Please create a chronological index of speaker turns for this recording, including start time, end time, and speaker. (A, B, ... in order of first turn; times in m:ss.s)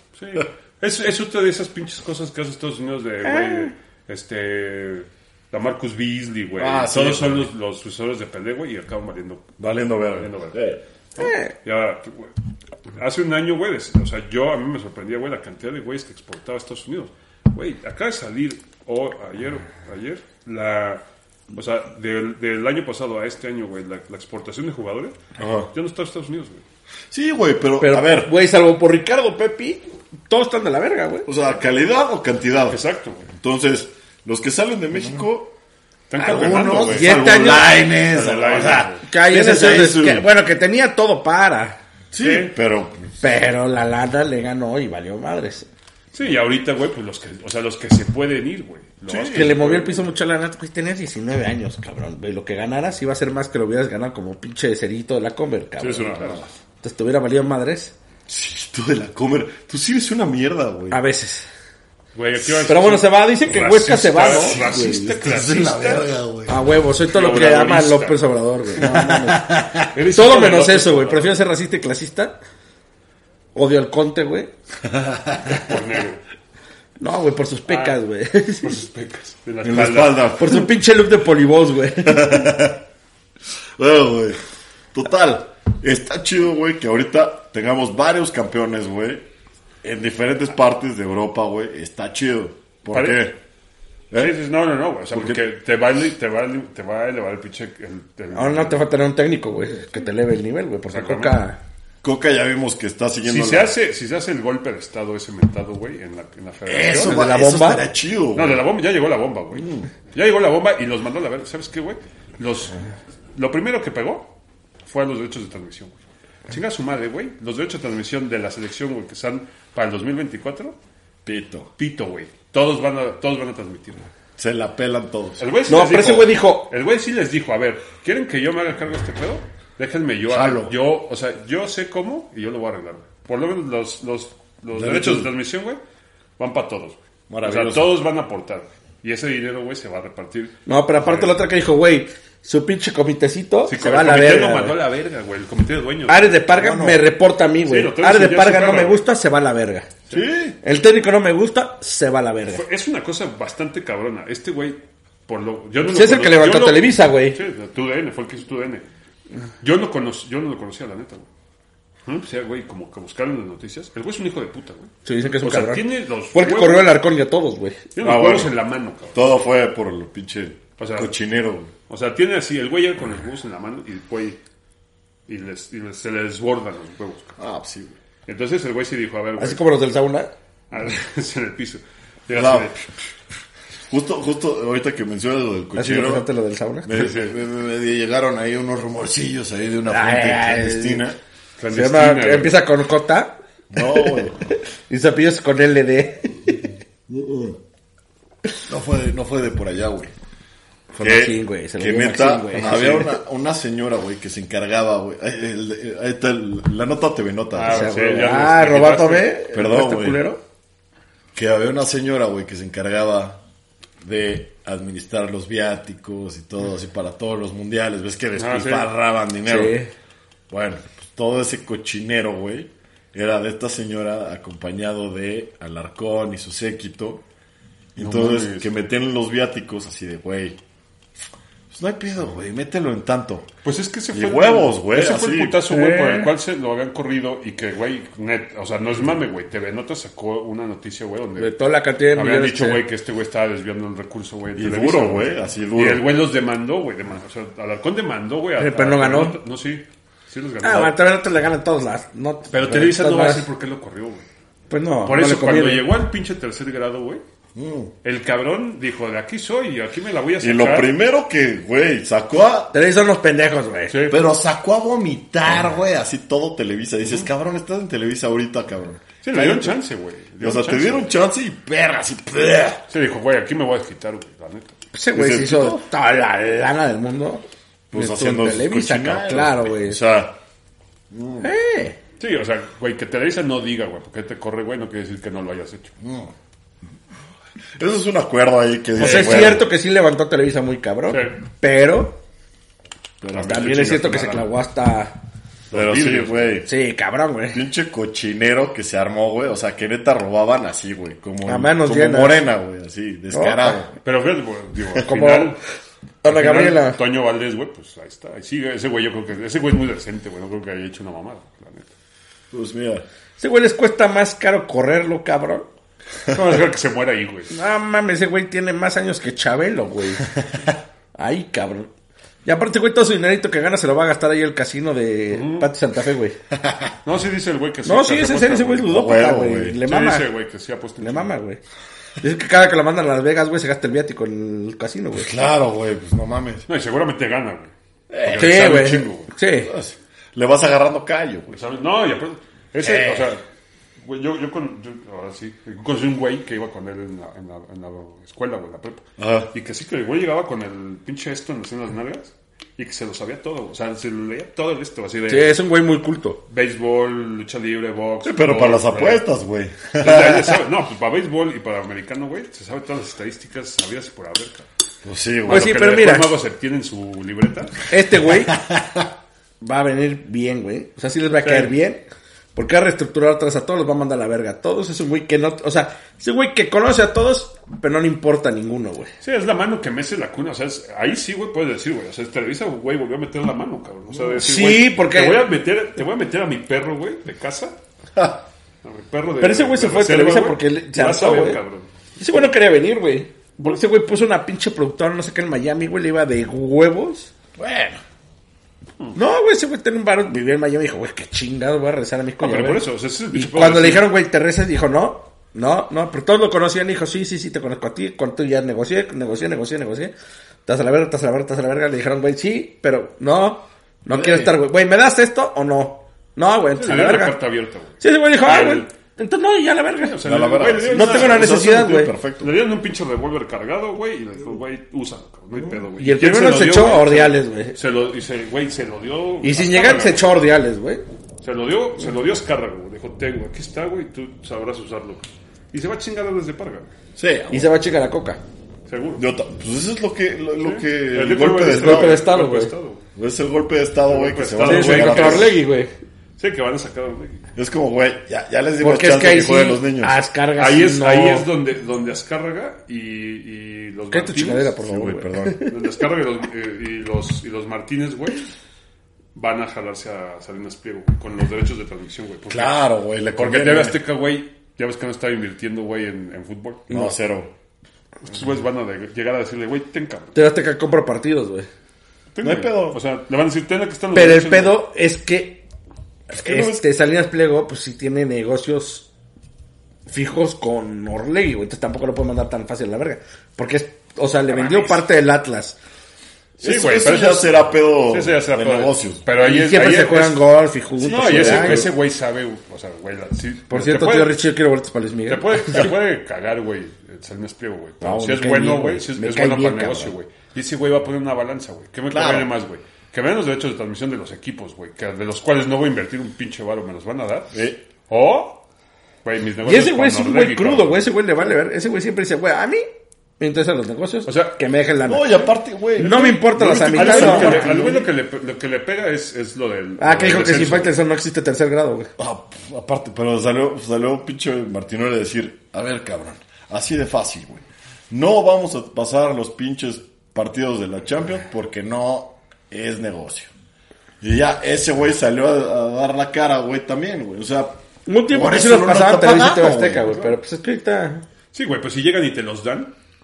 0:00.2-0:09.5 A
0:03.2-0:03.7 B
0:06.6-0:07.5 C
0:09.6-0:10.8 C
0:10.1-0:12.3 A
0:11.2-0:11.5 B
0:12.9-0:25.2 A
0:25.4-0:25.7 C
0:25.7-0:26.6 A
0:27.1-0:28.3 C
0:27.8-0:31.3 B
0:31.3-0:32.8 C
0:32.7-0:33.3 A
0:33.3-0:35.6 C
0:36.1-0:37.2 A
0:36.2-0:40.3 C
0:36.6-0:37.8 B
0:38.1-0:39.0 A
0:39.0-0:41.8 B
0:42.1-0:43.1 C
0:42.2-0:42.5 A
0:43.2-0:45.7 B
0:46.1-0:50.1 A
0:49.1-0:49.7 C
0:49.3-0:56.3 B
0:55.8-0:56.5 A
0:56.8-0:57.9 B
0:58.3-1:01.0 C
1:00.9-1:01.5 B
1:02.2-1:06.2 A
1:02.7-1:04.6 B
1:04.2-1:06.7 C
1:06.5-1:12.4 B
1:07.1-1:09.3 A
1:08.8-1:09.9 C
1:09.9-1:11.4 A
1:13.6-1:14.5 B
1:14.8-1:15.6 C
1:15.6-1:16.2 A
1:17.0-1:18.8 B
1:17.7-1:18.0 A
1:18.6-1:20.3 A
1:19.6-1:20.7 C
1:20.4-1:22.6 B
1:22.0-1:22.8 C
1:23.8-1:24.4 C
1:24.9-1:29.2 C
1:29.8-1:33.4 C
1:32.9-1:33.2 A
1:34.2-1:38.9 A
1:35.1-1:35.4 C
1:38.3-1:41.6 B
1:40.9-1:41.4 A
1:42.0-1:43.8 C
1:43.2-1:47.2 A
1:46.7-1:48.7 C
1:47.0-1:47.8 B
1:48.3-1:52.8 A
1:49.5-1:49.9 C
1:53.4-1:54.3 A
1:54.8-1:56.0 A
1:56.5-2:00.8 A
2:01.2-2:01.7 C
2:01.8-2:04.1 A
2:04.4-2:05.4 C
2:05.4-2:15.8 A
2:05.7-2:06.7 B
2:10.3-2:10.8 C
2:14.7-2:15.3 C
2:16.4-2:21.4 A
2:17.3-2:18.0 C
2:20.7-2:24.8 B
2:23.7-2:26.6 A
2:26.1-2:29.9 B
2:26.5-2:27.0 C
2:27.6-2:29.0 A
2:30.1-2:30.6 C
2:30.6-2:32.6 B
2:32.5-2:38.8 A
2:35.9-2:37.4 B
2:39.6-2:41.3 A
2:42.1-2:47.0 A
2:45.0-2:47.9 B
2:48.0-2:49.5 A
2:48.0-2:48.5 C
2:49.1-2:51.7 C
2:50.8-2:51.1 A
2:51.9-2:54.4 A
2:55.3-2:57.4 A
2:57.4-2:58.0 C
2:58.3-2:59.6 A
2:59.4-3:00.3 B
3:00.7-3:02.9 A
3:02.3-3:02.7 C
3:03.9-3:06.3 C
3:05.8-3:06.9 B
3:06.8-3:11.2 C
3:06.9-3:07.4 A
3:09.9-3:11.0 B
3:11.6-3:12.6 A
3:11.7-3:16.5 B
3:13.7-3:14.5 C
3:17.1-3:17.6 C
3:18.7-3:20.1 C
3:20.9-3:28.0 C
3:21.0-3:23.2 B
3:27.6-3:29.4 A
3:27.6-3:30.4 B
3:29.5-3:30.2 C
3:31.3-3:33.4 C
3:34.0-3:39.8 C
3:38.4-3:38.9 A
3:39.5-3:39.9 B
3:40.5-3:47.2 C
3:48.0-3:48.7 A
3:48.0-3:50.6 C
3:51.7-3:53.5 C
3:53.6-4:01.6 A
3:54.1-3:55.7 C
3:55.7-3:56.3 B
4:01.4-4:02.8 B
4:02.1-4:11.0 A
4:04.6-4:06.0 C
4:08.6-4:09.4 B
4:10.6-4:13.4 B
4:12.5-4:14.2 A
4:14.7-4:15.9 B
4:15.0-4:17.2 A
4:17.6-4:17.9 C
4:18.0-4:20.9 A
4:20.4-4:22.7 C
4:22.7-4:23.9 B
4:23.9-4:24.2 A
4:24.1-4:29.8 C
4:29.2-4:31.1 A
4:30.4-4:32.8 C
4:32.9-4:34.8 A
4:34.9-4:40.0 B
4:35.1-4:35.8 C
4:37.9-4:40.4 C
4:41.1-4:41.5 C
4:41.4-4:42.0 B
4:42.2-4:45.9 A
4:46.0-4:46.3 C
4:47.8-4:49.7 C
4:49.0-4:52.2 B
4:49.0-4:49.6 A
4:51.1-4:51.4 A
4:53.2-4:54.0 C
4:53.3-4:54.5 A
4:53.4-4:55.2 B
4:55.7-4:56.6 A
4:55.7-4:56.7 C
4:56.7-4:57.6 B
4:57.5-5:04.0 C
5:01.5-5:02.4 B
5:03.3-5:03.8 B
5:04.0-5:05.6 A
5:05.0-5:05.6 B
5:06.2-5:07.0 B
5:06.2-5:11.9 A
5:12.5-5:13.0 C
5:13.4-5:15.7 B
5:16.3-5:17.5 A
5:17.5-5:20.3 B
5:21.2-5:21.9 B
5:22.4-5:26.4 B
5:25.3-5:25.7 A
5:26.6-5:26.9 C
5:27.0-5:28.9 A
5:27.8-5:30.3 B
5:28.9-5:29.8 C
5:29.8-5:31.3 A
5:31.0-5:31.6 B
5:32.2-5:35.3 B
5:35.2-5:36.6 C
5:36.7-5:39.3 A
5:38.1-5:38.8 C
5:38.4-5:39.7 B
5:39.5-5:41.6 C
5:41.5-5:43.4 A
5:42.8-5:43.4 C
5:44.0-5:55.6 A
5:49.2-5:49.5 C
5:55.3-5:56.4 B
5:56.5-5:59.2 A
5:58.2-6:00.6 C
6:00.0-6:04.7 A
6:05.0-6:05.7 C
6:05.5-6:07.8 A
6:05.5-6:06.3 B
6:07.9-6:08.6 B
6:08.6-6:09.1 C
6:09.6-6:12.0 B
6:11.4-6:11.7 A
6:12.6-6:19.1 B
6:19.2-6:27.8 A
6:24.4-6:25.5 B
6:28.2-6:28.4 C
6:28.8-6:31.9 A
6:29.4-6:31.6 B
6:32.2-6:37.3 B
6:37.6-6:38.0 C
6:39.2-6:50.1 B
6:42.4-6:44.1 A
6:50.7-6:57.4 B
6:54.1-6:54.6 C
6:56.8-6:58.9 A
6:58.0-7:00.2 B
7:00.0-7:01.7 A
7:00.2-7:02.6 C
7:00.9-7:02.1 B
7:02.4-7:10.3 A
7:06.0-7:07.8 B
7:09.4-7:11.0 B
7:11.4-7:16.9 A
7:17.2-7:17.8 C
7:17.5-7:18.4 B
7:18.9-7:19.2 A
7:19.2-7:22.3 C
7:20.6-7:23.0 A
7:21.6-7:22.7 B
7:23.2-7:25.6 C
7:24.0-7:25.6 A
7:24.6-7:25.9 B
7:26.4-7:27.4 A
7:27.6-7:30.2 C
7:28.8-7:31.5 B
7:30.6-7:34.8 A
7:34.1-7:35.8 B
7:34.8-7:35.6 C
7:35.7-7:38.5 A
7:39.4-7:42.8 A
7:42.5-7:44.0 C
7:43.4-7:46.9 A
7:46.9-7:47.5 C
7:48.2-7:50.4 A
7:50.3-7:51.7 B
7:52.3-7:54.8 A
7:52.4-7:53.0 C
7:54.1-7:55.6 B
7:56.3-7:59.1 B
7:56.3-7:56.8 C
8:00.1-8:05.8 B
8:06.6-8:09.2 C
8:06.6-8:10.4 A
8:09.4-8:11.9 B
8:11.0-8:14.4 A
8:11.2-8:11.9 C
8:13.7-8:15.9 B
8:15.3-8:28.6 A
8:18.0-8:20.1 B
8:22.1-8:22.5 C
8:27.5-8:27.8 C
8:29.2-8:31.0 A
8:29.6-8:32.9 B
8:33.4-8:37.7 B
8:34.3-8:34.5 A
8:35.1-8:38.1 C
8:36.0-8:40.9 A
8:40.0-8:42.1 B
8:42.2-8:53.5 C
8:54.2-8:57.8 C
8:58.1-9:01.2 B
8:58.3-9:00.4 C
9:01.5-9:02.9 A